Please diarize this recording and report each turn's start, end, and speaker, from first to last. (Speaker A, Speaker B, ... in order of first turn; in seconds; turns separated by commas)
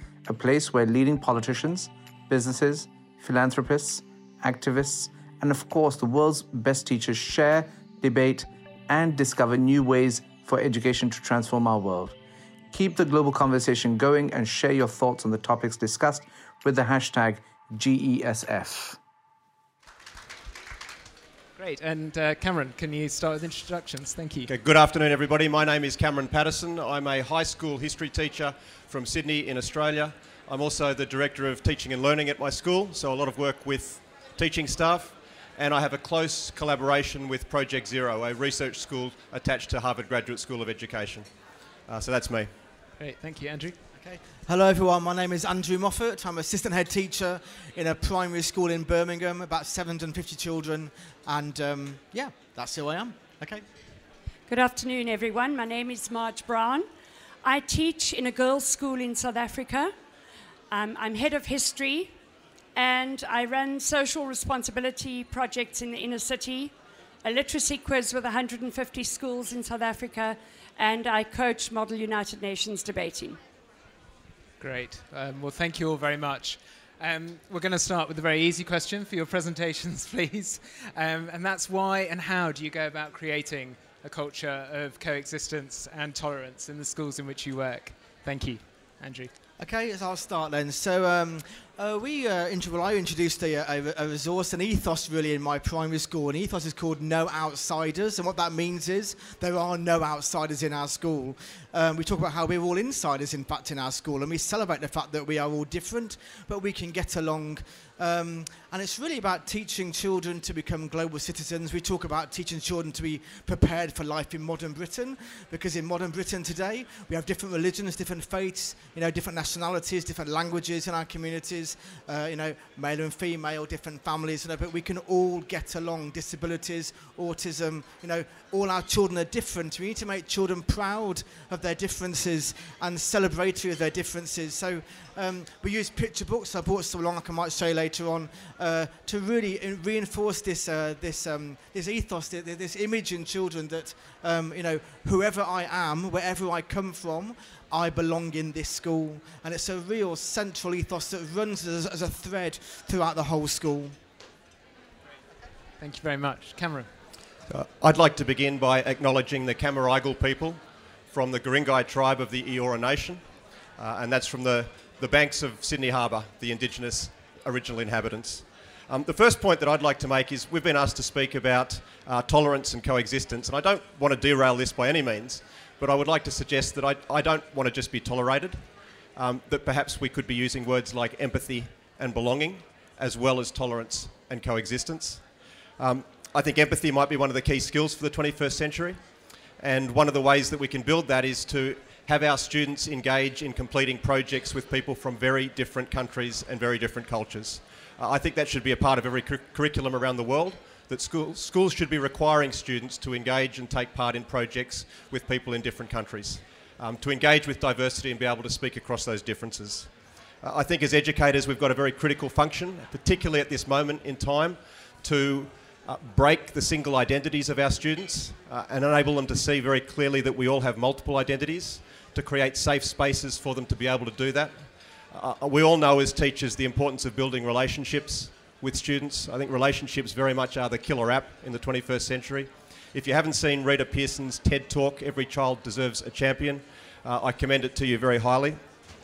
Speaker A: 0.3-12.2, Speaker A: 12.7-19.0, Speaker B: 21.6-24.5, Speaker C: 24.5-41.3, Speaker C: 41.9-42.5, Speaker B: 43.0-43.8, Speaker D: 44.0-53.6, Speaker E: 54.5-56.9, Speaker E: 57.4-59.9, Speaker E: 60.7-62.1, Speaker E: 62.8-66.7, Speaker E: 67.2-73.4, Speaker B: 74.6-89.3, Speaker D: 89.6-154.0, Speaker B: 155.8-156.9, Speaker C: 157.5-185.2, Speaker C: 185.8-189.0, Speaker C: 189.6-238.6